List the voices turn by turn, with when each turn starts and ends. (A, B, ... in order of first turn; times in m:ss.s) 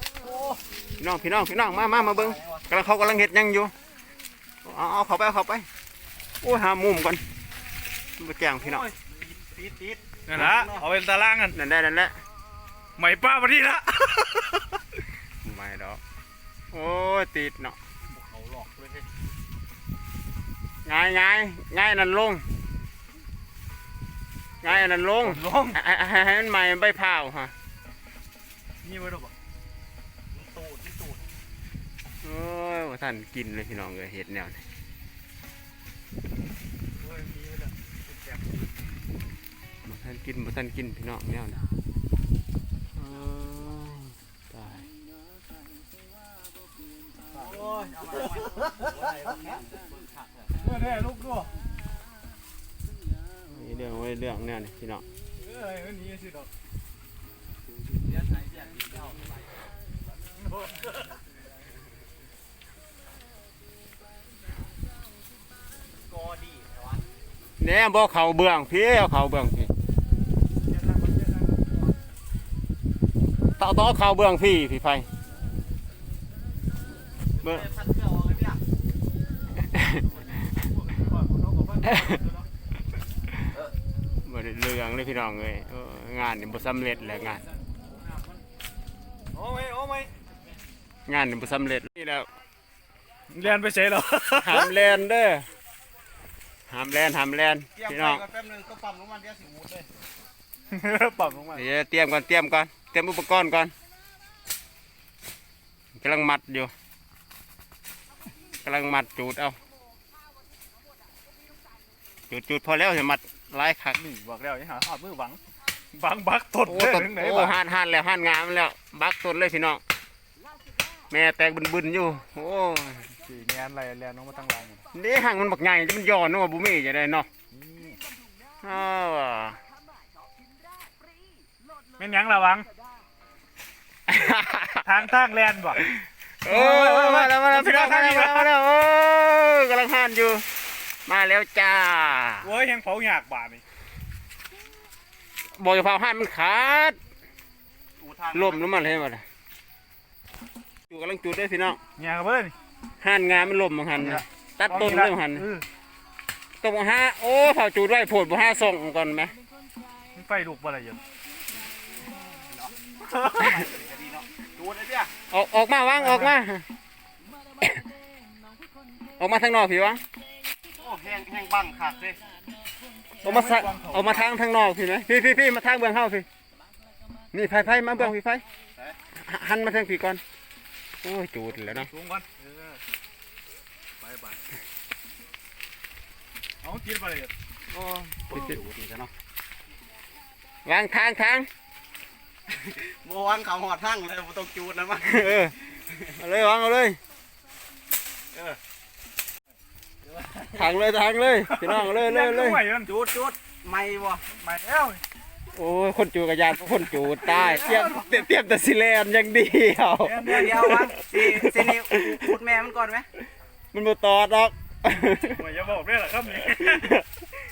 0:00.2-0:00.6 A
0:01.0-0:03.7 B
0:01.8-0:02.7 A
0:04.6-0:05.6 B
0:06.4-0:07.2 B
0:08.2-0:08.9 B
0:08.6-0:10.8 A
0:10.3-0:11.6 C
0:11.5-0:12.1 B
0:13.0-0:14.6 C
0:15.4-0:16.0 B
0:16.7-0:17.8 B
0:18.1-0:19.1 A
0:20.8-0:22.4 B
0:24.6-0:27.5 B
0:25.2-0:25.8 C
0:28.8-0:29.3 C
0:30.3-0:31.2 A
0:32.2-0:34.6 B
0:37.0-0:38.6 C
0:39.8-0:41.6 B
0:42.9-0:44.8 B
0:47.3-0:50.6 A
0:48.6-0:48.9 C
0:50.6-0:51.5 C
0:53.5-0:55.0 B
0:55.4-0:56.5 C
0:58.0-0:59.7 A
1:00.4-1:01.0 C
1:06.0-1:07.0 A
1:07.6-1:09.7 B
1:10.7-1:11.7 C
1:13.6-1:15.1 B
1:17.4-1:18.6 A
1:19.7-1:20.0 B
1:20.5-1:22.4 C
1:21.8-1:22.2 B
1:24.2-1:27.4 B
1:29.3-1:30.1 C
1:31.1-1:32.3 B
1:33.3-1:34.7 C
1:34.4-1:35.5 B
1:36.7-1:38.2 B
1:37.8-1:39.9 A
1:40.7-1:41.6 C
1:41.5-1:43.7 B
1:46.0-1:46.7 B
1:48.6-1:49.6 B
1:52.3-1:54.0 B
1:54.0-1:55.4 C
1:55.9-1:57.6 C
1:56.6-1:59.8 B
2:01.1-2:03.1 B
2:03.2-2:04.8 C
2:04.9-2:07.3 B
2:07.5-2:08.0 C
2:08.6-2:09.6 B
2:12.0-2:12.7 C
2:14.1-2:14.8 B
2:14.8-2:15.8 C
2:15.8-2:20.4 B
2:16.4-2:18.5 C
2:21.0-2:22.5 B
2:22.4-2:23.6 C
2:25.5-2:27.0 B
2:28.0-2:28.7 A
2:28.3-2:29.2 B
2:30.9-2:31.8 B
2:32.0-2:32.5 C
2:33.0-2:35.5 B
2:34.0-2:35.6 C
2:36.6-2:39.3 B
2:40.1-2:41.0 C
2:42.5-2:45.1 A
2:45.3-2:46.6 B
2:46.0-2:46.3 C
2:49.2-2:50.0 B
2:50.7-2:52.2 A
2:53.2-2:54.2 C
2:53.2-2:56.2 B
2:57.3-2:58.4 B
2:59.1-3:00.2 B
3:01.0-3:01.9 B
3:01.5-3:02.8 C
3:04.0-3:04.4 C
3:06.6-3:07.3 C
3:07.7-3:09.1 A
3:07.8-3:08.6 B
3:10.6-3:11.5 B
3:12.5-3:16.2 A
3:15.0-3:15.5 B
3:16.2-3:17.0 B
3:18.3-3:18.6 A
3:20.5-3:22.6 B
3:21.4-3:22.9 C
3:22.8-3:24.2 A
3:24.3-3:25.0 C
3:25.5-3:32.3 B
3:27.2-3:28.2 C
3:30.0-3:30.8 C
3:30.3-3:33.1 A
3:33.7-3:35.4 B
3:35.2-3:37.0 C
3:36.3-3:37.0 B